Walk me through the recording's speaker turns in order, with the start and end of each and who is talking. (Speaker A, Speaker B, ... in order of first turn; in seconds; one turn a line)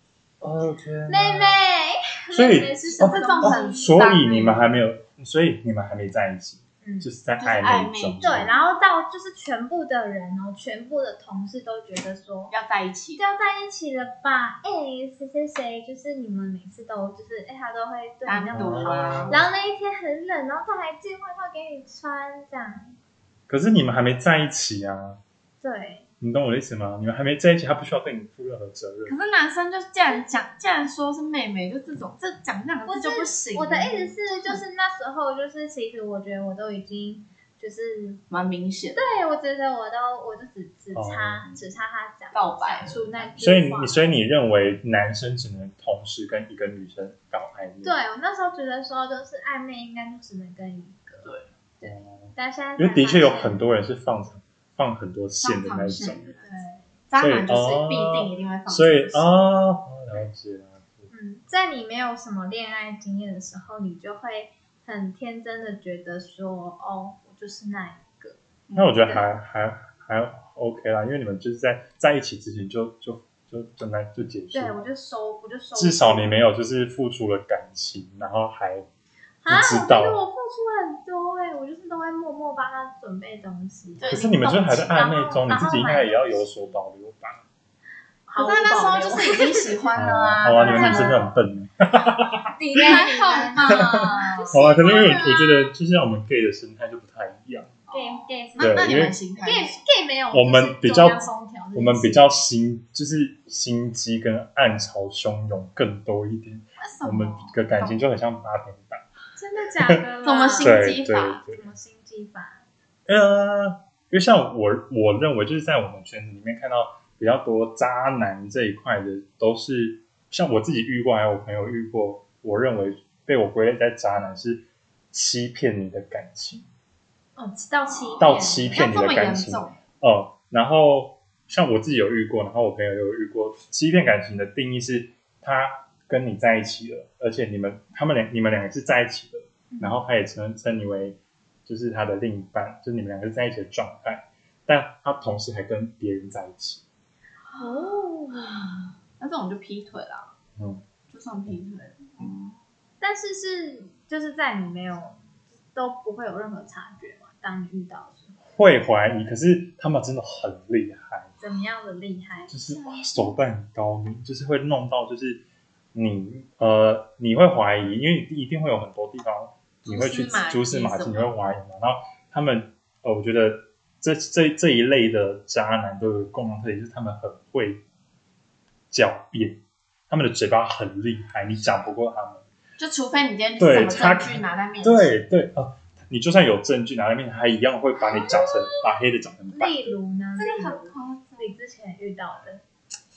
Speaker A: 0.4-1.6
Speaker B: 1.1-4.0
Speaker A: 2.3-8.5
Speaker C: 2.9-4.7
Speaker B: 6.8-7.1
Speaker C: 7.4-8.4
Speaker B: 8.2-12.5
Speaker C: 12.5-13.2
Speaker B: 13.2-22.9
Speaker C: 18.3-19.4
Speaker A: 18.5-19.5
Speaker A: 23.5-25.2
Speaker B: 25.6-26.1
Speaker A: 26.2-29.2
Speaker C: 29.1-34.6
Speaker B: 32.9-38.2
Speaker C: 38.3-39.1
Speaker B: 39.0-44.1
Speaker A: 40.9-41.5
Speaker C: 42.3-43.3
Speaker A: 43.4-48.0
Speaker B: 47.8-53.6
Speaker C: 51.2-51.5
Speaker A: 51.8-56.3
Speaker C: 55.4-59.3
Speaker B: 56.4-56.9
Speaker A: 57.2-61.1
Speaker B: 61.1-68.4
Speaker C: 68.7-69.2
Speaker A: 68.8-74.8
Speaker B: 74.5-76.3
Speaker A: 75.8-78.9
Speaker B: 79.4-86.5
Speaker A: 79.5-80.2
Speaker C: 84.0-84.9
Speaker A: 84.1-87.4
Speaker B: 88.3-89.8
Speaker C: 88.3-91.2
Speaker A: 89.9-93.0
Speaker B: 90.4-91.2
Speaker B: 92.6-95.7
Speaker C: 92.8-94.7
Speaker A: 93.6-97.8
Speaker C: 97.9-99.8
Speaker B: 97.9-98.9
Speaker A: 98.6-99.2
Speaker B: 99.4-102.3
Speaker A: 100.3-109.1
Speaker C: 106.8-108.0
Speaker B: 109.4-110.9
Speaker C: 110.2-111.4
Speaker A: 110.6-111.7
Speaker B: 111.5-112.6
Speaker A: 113.1-126.7
Speaker B: 127.4-128.8
Speaker C: 128.0-129.8
Speaker A: 128.2-146.8
Speaker B: 139.7-140.0
Speaker C: 147.5-150.3
Speaker B: 147.6-148.8
Speaker A: 150.6-150.9
Speaker C: 151.1-152.6
Speaker B: 153.0-155.2
Speaker B: 155.7-158.4
Speaker A: 158.5-161.3
Speaker B: 161.4-162.5
Speaker C: 162.5-163.3
Speaker A: 162.5-165.4
Speaker A: 165.9-177.8
Speaker C: 169.8-171.3
Speaker A: 178.9-182.4
Speaker C: 182.8-185.2
Speaker A: 183.6-189.9
Speaker C: 188.2-188.5
Speaker B: 189.5-192.6
Speaker C: 190.4-191.5